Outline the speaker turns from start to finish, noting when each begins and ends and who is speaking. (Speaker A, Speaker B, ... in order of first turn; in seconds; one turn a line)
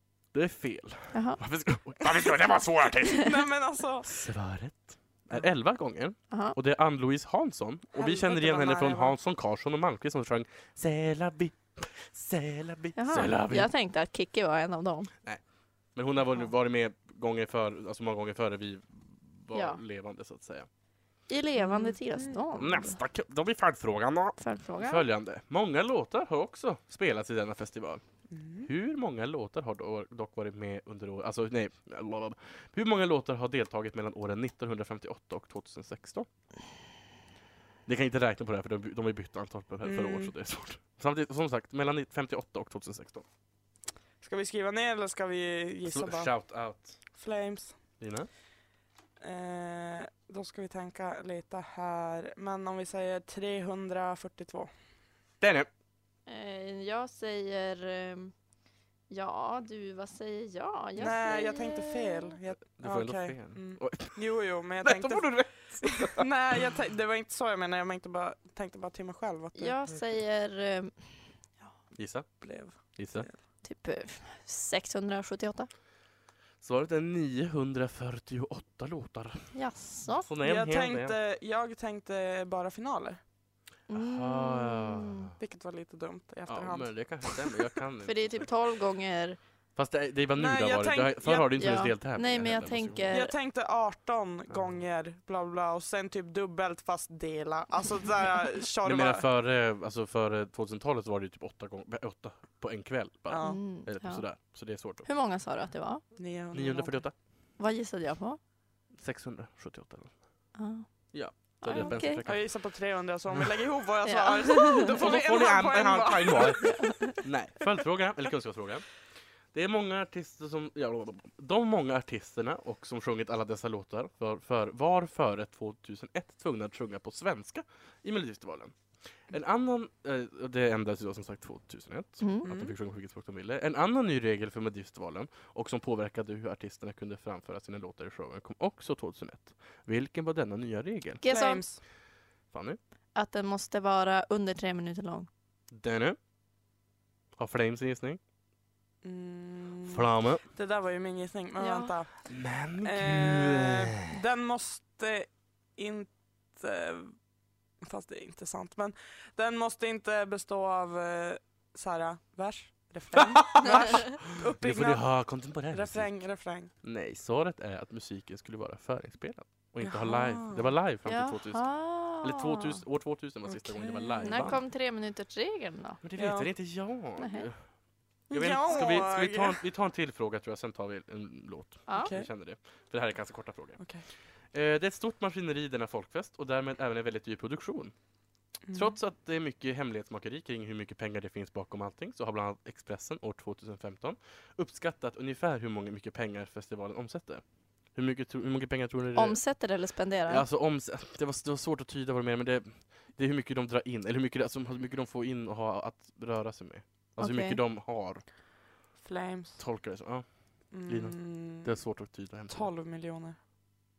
Speaker A: 0.3-3.4
Speaker B: 1.1-1.4
Speaker C: 3.1-4.1
Speaker A: 4.0-13.7
Speaker B: 6.3-6.6
Speaker C: 8.0-9.2
Speaker B: 13.0-15.1
Speaker A: 15.9-20.7
Speaker B: 19.5-19.8
Speaker B: 21.3-23.0
Speaker C: 21.6-22.4
Speaker A: 22.5-28.0
Speaker B: 24.4-25.1
Speaker C: 28.3-28.7
Speaker A: 28.6-36.3
Speaker A: 37.9-43.2
Speaker C: 39.8-40.3
Speaker C: 44.2-46.3
Speaker A: 45.9-47.0
Speaker C: 47.1-47.8
Speaker A: 48.0-48.3
Speaker C: 49.2-54.7
Speaker A: 55.4-55.7
Speaker B: 56.3-58.3
Speaker B: 59.1-62.3
Speaker C: 61.0-69.7
Speaker A: 62.8-64.2
Speaker A: 64.8-66.2
Speaker B: 69.6-71.7
Speaker A: 72.0-72.3
Speaker C: 72.4-73.4
Speaker A: 73.0-73.3
Speaker B: 73.6-75.7
Speaker A: 76.6-79.4
Speaker B: 79.5-80.3
Speaker A: 80.2-81.2
Speaker C: 80.4-83.2
Speaker B: 83.9-85.3
Speaker A: 83.9-85.3
Speaker C: 85.4-87.6
Speaker A: 86.5-88.5
Speaker B: 88.0-89.4
Speaker A: 89.8-93.2
Speaker C: 90.3-91.8
Speaker B: 91.6-93.3
Speaker C: 93.1-99.3
Speaker A: 94.5-94.8
Speaker A: 98.8-105.1
Speaker C: 103.3-103.6
Speaker B: 103.4-104.3
Speaker B: 105.0-106.0
Speaker C: 106.2-107.0
Speaker A: 106.5-107.1
Speaker B: 107.6-108.4
Speaker A: 109.0-110.1
Speaker B: 110.6-110.9
Speaker A: 111.1-112.5
Speaker B: 111.6-112.2
Speaker C: 111.8-116.9
Speaker A: 113.3-113.6
Speaker B: 114.0-115.0
Speaker A: 114.7-118.8
Speaker B: 116.6-117.2
Speaker A: 119.5-128.8
Speaker A: 129.3-141.2
Speaker B: 132.2-132.5
Speaker C: 132.4-132.7
Speaker B: 141.2-141.6
Speaker C: 141.2-141.8
Speaker A: 142.5-142.8
Speaker B: 143.2-145.3
Speaker A: 145.7-146.2
Speaker A: 147.4-148.2
Speaker C: 149.0-152.2
Speaker A: 149.9-150.4
Speaker B: 151.6-151.9
Speaker A: 152.3-154.1
Speaker C: 152.8-157.1
Speaker C: 157.8-165.0
Speaker A: 163.2-166.1
Speaker C: 165.7-166.7
Speaker A: 166.8-171.7
Speaker C: 169.8-170.7
Speaker B: 171.1-172.8
Speaker A: 172.2-174.6
Speaker C: 173.5-174.6
Speaker B: 174.2-176.0
Speaker A: 176.0-177.6
Speaker C: 176.2-176.5
Speaker B: 177.2-177.5
Speaker A: 178.3-183.8
Speaker C: 178.3-179.6
Speaker B: 181.9-182.1
Speaker C: 181.9-182.3
Speaker A: 184.5-187.9
Speaker A: 188.7-197.4
Speaker A: 197.9-199.4
Speaker B: 199.2-200.5
Speaker A: 200.3-208.2
Speaker B: 207.2-207.6
Speaker C: 209.0-209.6
Speaker A: 209.6-210.2
Speaker C: 210.7-211.7
Speaker A: 210.8-212.7
Speaker C: 212.5-213.4